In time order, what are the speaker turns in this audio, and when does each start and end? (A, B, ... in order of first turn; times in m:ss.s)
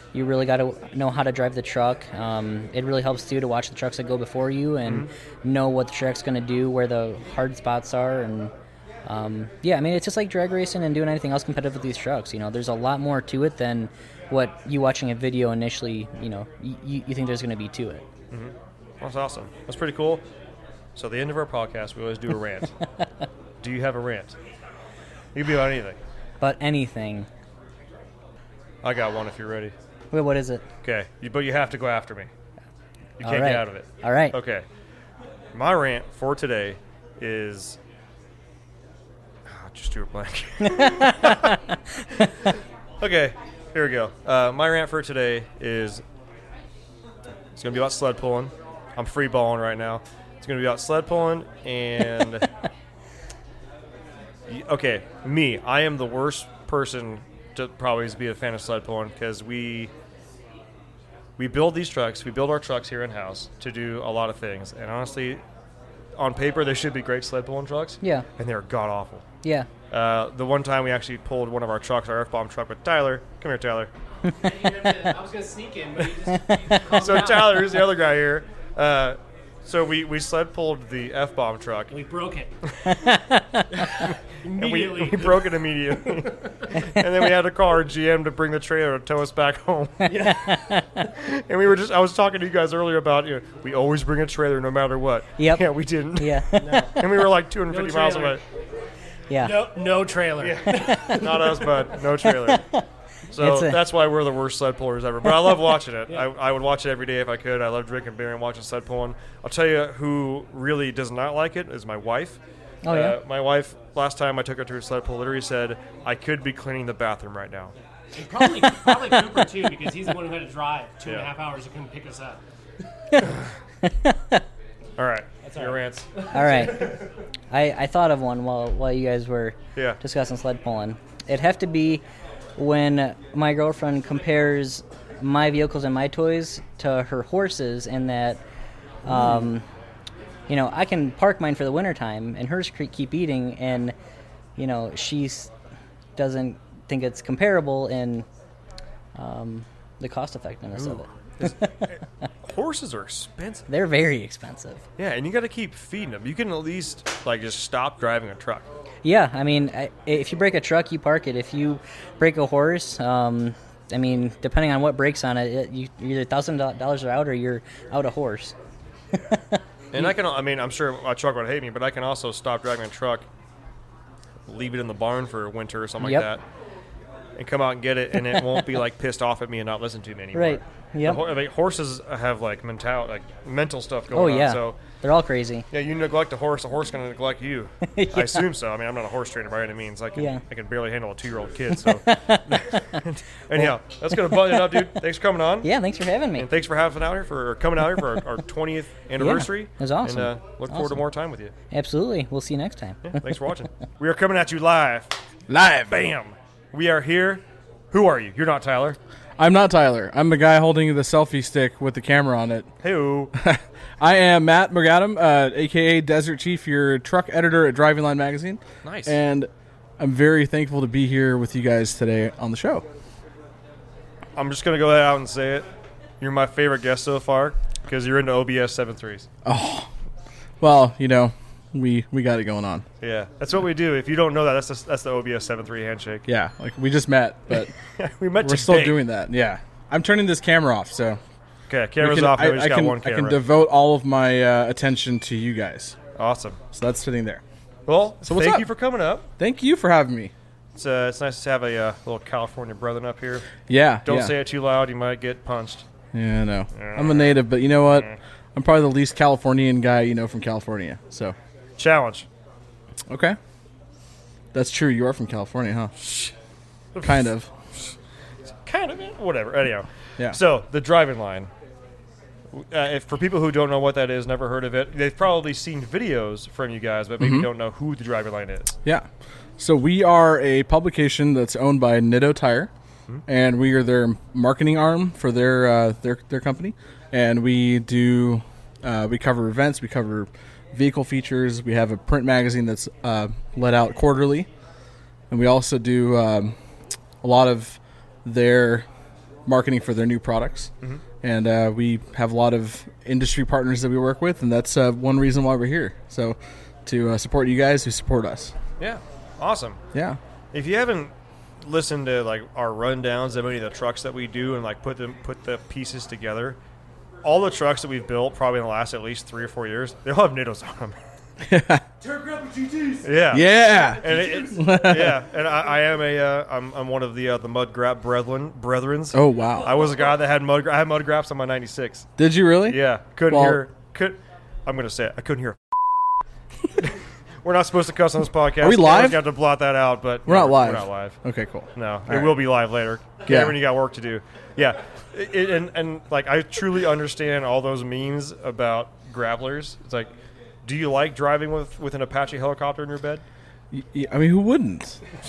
0:00.1-0:08.5 A
0:09.0-0:18.0 A
0:18.3-0:20.3 B
0:21.0-0:22.7 B
0:23.6-0:24.4 B
0:25.4-0:26.0 B
0:26.4-0:27.3 A
0:28.8-0:29.7 B
0:30.1-0:30.7 A
0:30.8-0:32.3 B
0:33.2-0:34.6 B
0:33.2-0:34.4 A
0:35.5-0:37.8 B
0:39.5-0:41.6 B
0:40.6-0:41.5 A
0:42.1-0:46.0 B
0:47.6-0:52.5 B
0:54.5-0:59.9 B
1:01.4-1:05.4 B
1:06.2-1:09.2 B
1:09.4-1:09.7 A
1:09.9-1:13.9 B
1:14.4-1:17.7 C
1:16.9-1:21.9 B
1:21.9-1:22.5 C
1:22.9-1:23.8 A
1:24.1-1:30.3 B
1:24.4-1:25.5 C
1:26.1-1:26.4 C
1:26.8-1:27.1 A
1:30.1-1:31.1 A
1:31.1-1:38.4 B
1:35.4-1:37.3 A
1:36.6-1:36.9 C
1:37.7-1:38.4 C
1:39.3-1:39.7 A
1:39.4-1:41.6 C
1:40.4-1:42.7 B
1:40.6-1:42.9 A
1:43.3-1:57.7 B
1:43.4-1:43.8 A
1:52.8-1:53.2 A
1:58.2-2:02.4 C
2:03.8-2:04.4 A
2:05.0-2:06.9 B
2:05.4-2:05.8 C
2:06.3-2:07.0 A
2:07.5-2:12.0 A
2:12.6-2:18.4 A
2:19.0-2:19.6 A
2:20.5-2:24.0 A
2:24.6-2:25.5 A
2:26.2-2:28.3 A
2:29.2-2:31.8 A
2:30.8-2:33.7 B
2:33.7-2:34.8 A
2:35.0-2:38.7 B
2:39.0-2:48.6 A
2:49.1-2:50.1 A
2:49.9-2:53.2 B
2:54.5-2:56.4 B
2:56.0-2:56.3 A
2:57.4-3:04.8 B
2:58.3-2:58.6 A
3:00.3-3:01.3 A
3:04.1-3:05.7 A
3:05.7-3:15.7 B
3:07.9-3:08.5 A
3:10.2-3:10.4 A
3:11.7-3:13.0 A
3:13.6-3:15.0 A
3:15.6-3:16.5 A
3:16.4-3:21.5 B
3:19.2-3:21.0 A
3:21.7-3:23.3 A
3:23.0-3:25.1 B
3:25.5-3:25.9 D
3:25.9-3:29.0 B
3:29.4-3:32.7 D
3:32.8-3:33.3 B
3:33.4-3:42.8 D
3:38.8-3:39.2 B
3:44.4-3:45.7 B
3:46.2-3:49.3 B
3:49.4-3:49.9 D
3:50.6-3:52.9 D
3:53.0-3:56.3 B
3:56.3-3:57.7 D
3:57.5-3:59.0 B
3:58.4-4:01.2 D
4:01.7-4:03.4 B
4:02.0-4:06.0 D
4:06.2-4:06.6 B
4:06.7-4:07.4 D
4:07.9-4:09.3 B
4:08.2-4:08.7 D
4:09.4-4:10.3 D
4:10.8-4:15.8 B
4:13.7-4:14.4 D
4:16.1-4:21.4 D
4:16.7-4:18.2 B
4:21.8-4:22.3 B
4:23.1-4:23.4 D
4:24.5-4:25.9 D
4:26.0-4:26.3 B
4:27.0-4:27.2 B
4:27.0-4:27.5 D
4:28.6-4:31.5 B
4:32.5-4:38.8 B
4:37.2-4:37.5 D
4:39.6-4:42.7 D
4:43.3-4:54.5 D
4:55.3-4:56.6 D
4:57.2-4:58.9 D
4:59.5-5:08.6 D
5:08.8-5:09.8 B
5:09.9-5:10.2 D
5:10.5-5:16.6 B
5:17.2-5:21.0 B
5:21.4-5:21.8 D
5:22.0-5:23.0 C
5:23.0-5:32.1 B
5:23.3-5:25.2 D
5:29.1-5:29.7 D
5:32.2-5:33.6 D
5:32.7-5:35.8 B
5:36.8-5:41.2 B
5:38.6-5:39.2 D
5:40.3-5:42.4 D
5:41.8-5:50.1 B
5:43.3-5:43.6 D
5:50.6-5:53.2 B
5:53.7-5:55.0 D